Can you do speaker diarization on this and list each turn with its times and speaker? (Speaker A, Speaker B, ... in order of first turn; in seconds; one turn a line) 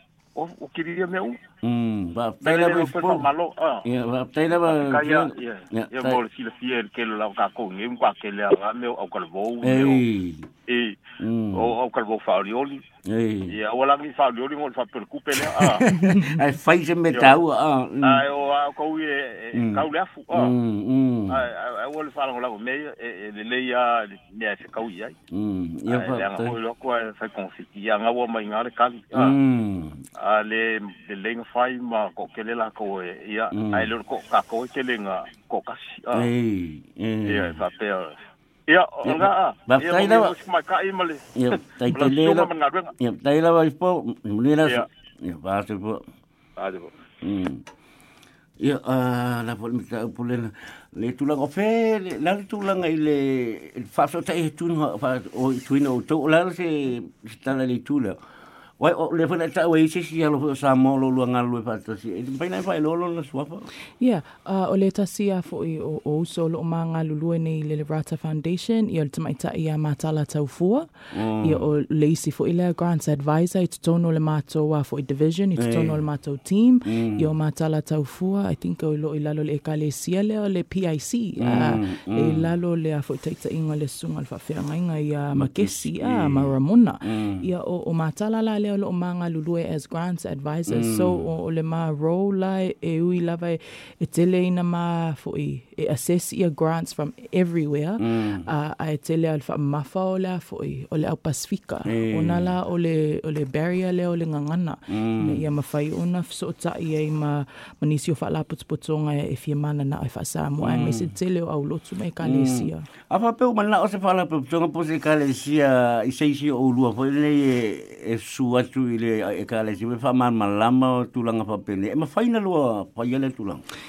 Speaker A: 0.3-1.4
Speaker B: 1.6-3.3
Speaker A: 2.4-3.9
Speaker B: 3.8-6.2
Speaker A: 4.5-10.0
Speaker B: 9.6-10.5
Speaker A: 10.7-11.0
Speaker B: 11.2-11.7
Speaker A: 11.5-12.8
Speaker B: 13.0-13.6
Speaker A: 13.5-15.9
Speaker B: 15.3-18.3
Speaker C: 16.1-16.4
Speaker A: 17.1-17.4
Speaker A: 18.0-20.5
Speaker B: 19.5-21.5
Speaker A: 21.3-25.1
Speaker B: 25.3-26.6
Speaker A: 25.9-29.3
Speaker B: 29.1-30.0
Speaker A: 30.2-36.3
Speaker B: 33.5-33.9
Speaker B: 36.1-37.6
Speaker A: 37.2-42.9
Speaker B: 39.0-40.4
Speaker B: 41.3-46.0
Speaker A: 46.6-46.9
Speaker B: 47.2-47.6
Speaker B: 48.6-58.2
Speaker B: 58.8-63.7
Speaker C: 64.0-112.8
Speaker B: 71.1-71.6
Speaker B: 75.6-76.0
Speaker B: 76.9-77.3
Speaker B: 81.4-82.5
Speaker B: 85.4-87.4
Speaker B: 90.7-91.2
Speaker B: 98.0-98.5
Speaker B: 101.9-102.5
Speaker B: 104.9-105.4
Speaker B: 110.6-111.1
Speaker B: 112.2-123.6